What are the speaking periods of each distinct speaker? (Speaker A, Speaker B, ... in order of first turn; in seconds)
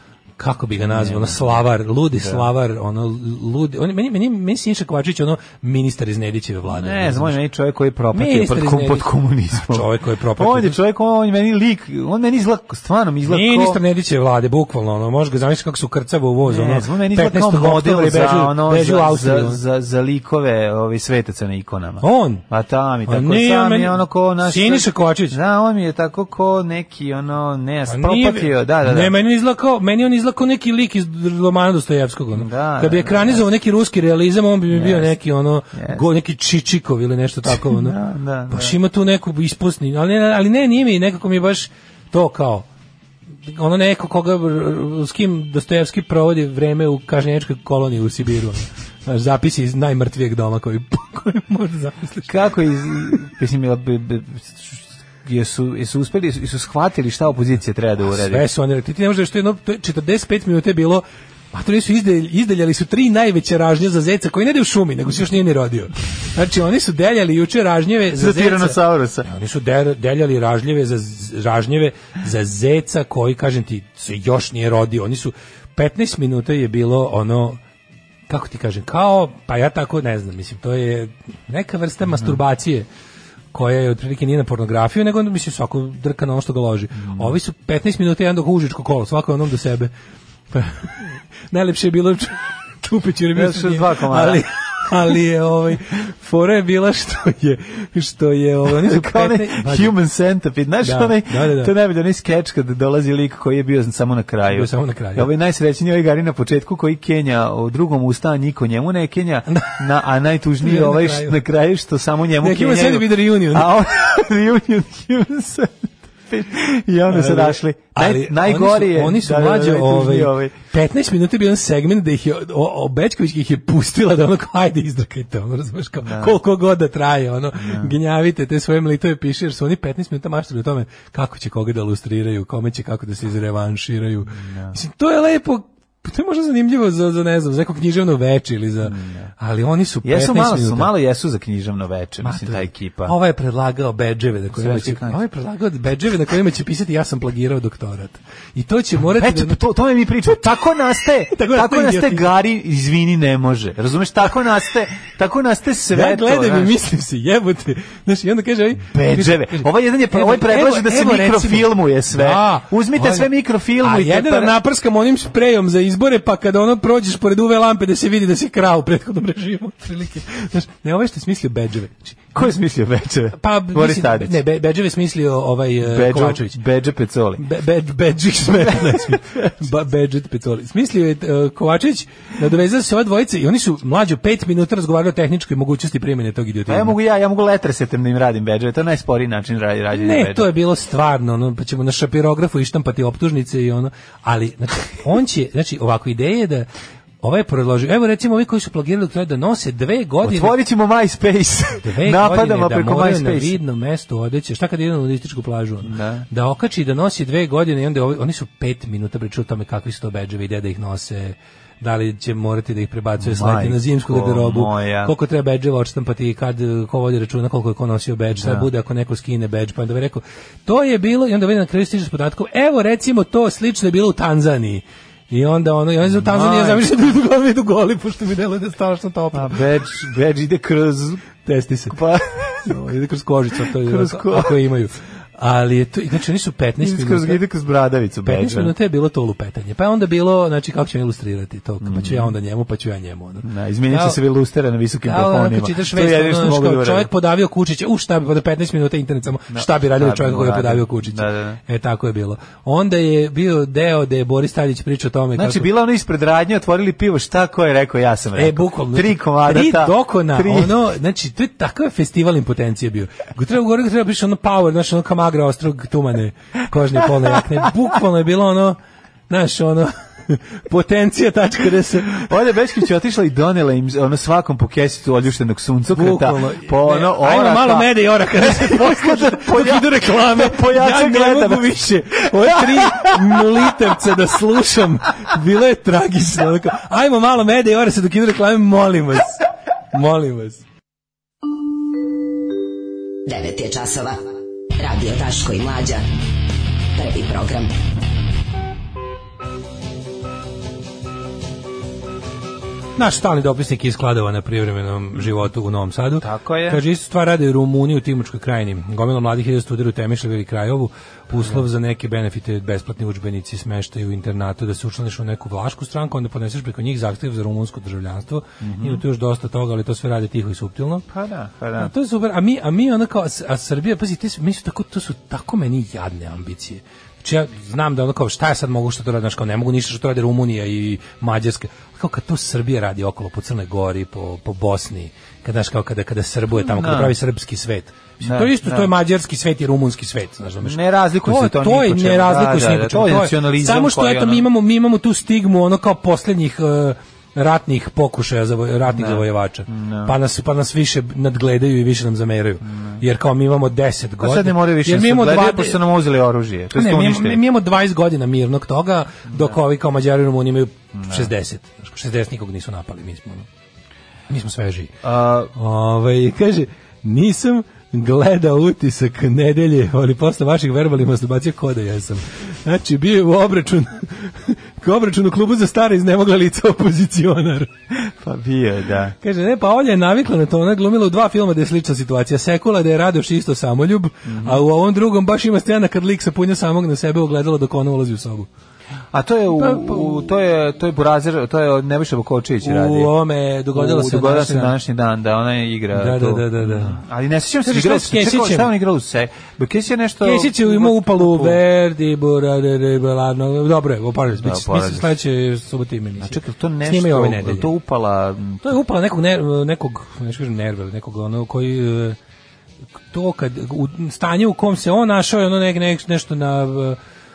Speaker A: 0.4-7.4, 8.1-10.8, 13.3-19.6, 22.0-22.4, 23.1-25.4, 27.9-38.0, 38.5-42.7, 43.5-52.4, 58.1-77.6, 78.3-82.9, 83.5-89.9, 90.5-99.9, 100.8-101.7, 104.5-105.3, 109.5-109.8, 110.6-111.4, 112.4-113.8, 117.1-140.9, 142.2-149.6, 151.3-152.3, 155.9-172.4, 173.3-176.6, 177.4-187.0, 189.9-196.7, 197.2-200.6, 201.8-229.6, 231.4-237.4, 238.2-244.2, 245.0-255.7, 258.4-268.8, 269.3-272.3, 275.9-289.4, 289.9-290.6, 303.0-321.1, 321.8-355.8, 356.7-363.5, 364.3-365.0, 365.5-377.7, 379.2-388.5, 389.6-390.3, 392.6-394.8, 395.9-397.0, 397.6-398.7, 400.2-407.7, 408.6-412.2, 413.1-417.0
Speaker B: 0.8-2.5, 6.7-13.8, 16.5-29.1, 32.4-33.5, 34.7-35.1, 35.7-36.0, 37.5-38.8, 52.3-58.5, 68.1-69.3, 87.0-87.4, 93.3-94.4, 98.7-120.5, 126.0-126.4, 127.6-127.9, 134.4-134.8, 138.8-139.3, 140.0-143.2, 144.5-145.2, 149.1-156.8, 158.9-164.6, 172.3-174.4, 175.8-177.4, 178.6-179.5, 186.7-190.5, 200.2-203.6, 205.8-206.3, 213.2-215.1, 218.4-218.7, 226.1-226.8, 229.3-231.2, 231.9-232.8, 233.6-234.6, 236.8-238.7, 241.8-242.3, 243.4-247.1, 249.5-251.6, 255.4-260.8, 272.2-284.0, 306.2-306.8, 318.6-319.0, 321.1-321.9, 336.7-337.1, 338.2-338.9, 340.6-344.5, 348.9-350.1, 352.6-353.0, 354.2-357.4, 360.9-361.3, 365.0-365.5, 377.9-379.1, 384.3-384.6, 389.1-393.1, 393.7-401.6, 404.4-405.1, 406.2-408.8
Speaker C: 293.3-294.2, 294.8-296.0, 296.9-297.7